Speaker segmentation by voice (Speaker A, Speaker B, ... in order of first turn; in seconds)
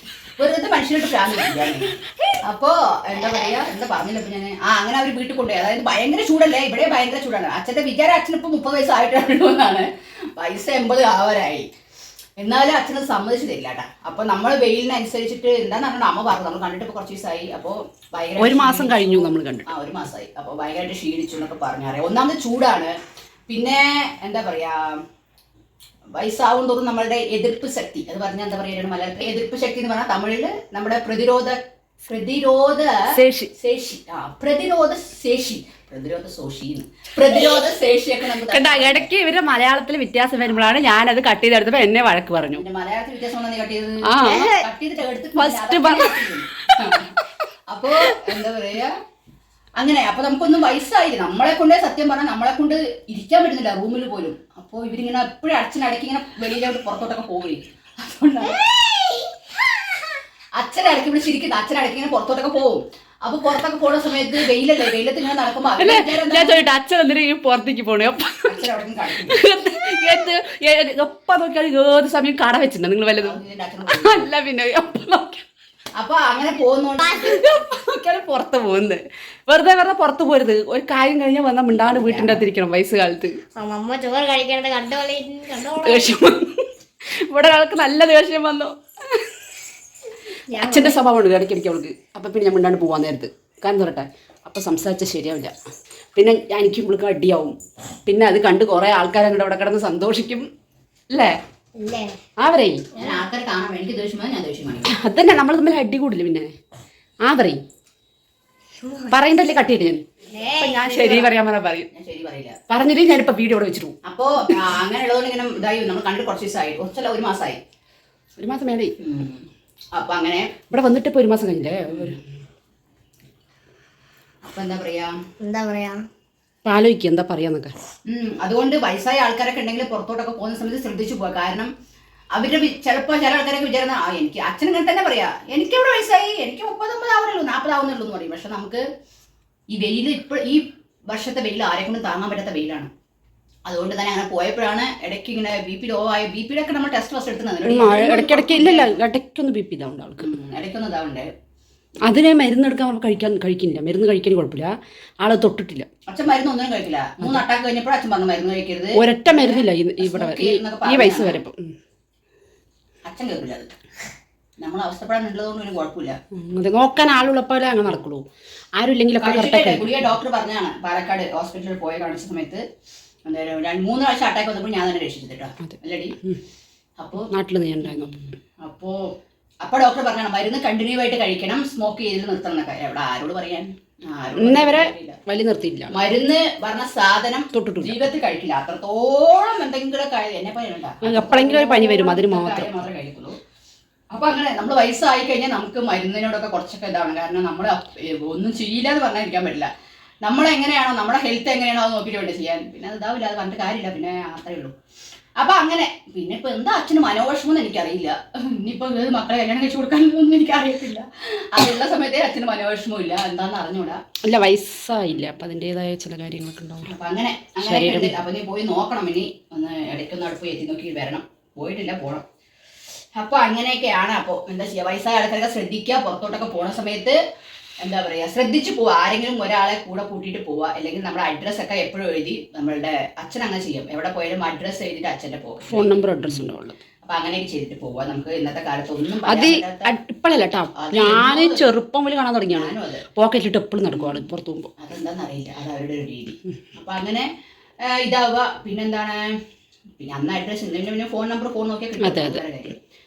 Speaker A: 0.4-11.7, 12.4-22.9, 23.5-25.0, 26.2-39.1, 42.5-47.1, 47.7-49.0, 49.8-58.7, 60.5-66.7, 68.5-69.4, 73.2-74.3, 76.0-77.5, 81.7-82.5, 102.9-104.9, 111.9-112.6, 114.0-117.6, 119.0-120.6, 124.4-125.2, 128.1-131.7, 132.3-138.8, 139.7-142.9, 143.7-149.0, 150.2-151.3, 156.1-161.4, 163.1-163.7, 164.6-166.2, 169.2-172.6, 173.3-176.2, 177.0-177.3, 178.6-179.0, 179.6-185.2, 185.9-193.4, 194.1-199.7, 200.2-204.8, 205.4-214.0, 216.8-222.2, 223.2-227.2, 227.8-236.4, 237.0-239.9, 240.8-241.6, 242.5-243.1, 243.9-244.3, 244.8-247.3, 247.8-249.3, 250.0-252.8
Speaker B: 18.4-19.7, 33.1-33.5, 38.5-42.6, 44.1-44.7, 45.4-47.4, 47.9-48.4, 65.8-68.7, 69.2-75.4, 77.2-83.4, 85.8-86.7, 87.3-89.3, 90.5-95.5, 96.2-97.6, 98.1-100.5, 102.4-102.9, 104.8-106.5, 107.2-107.6, 109.1-111.9, 112.7-113.9, 118.4-118.9, 120.7-122.2, 126.7-127.7, 147.7-150.3, 152.1-155.9, 158.9-161.7, 166.3-169.9, 175.6-176.4, 177.3-178.1, 184.3-185.9, 187.5-188.0, 191.0-192.8, 214.3-216.9, 217.6-218.2, 235.7-236.8, 239.3-244.7, 252.0-252.6
Speaker C: 58.8-59.3, 77.0-77.5, 83.6-86.1, 90.5-91.0, 101.8-102.2, 103.0-103.2, 108.8-109.2, 110.3-111.3, 125.4-126.0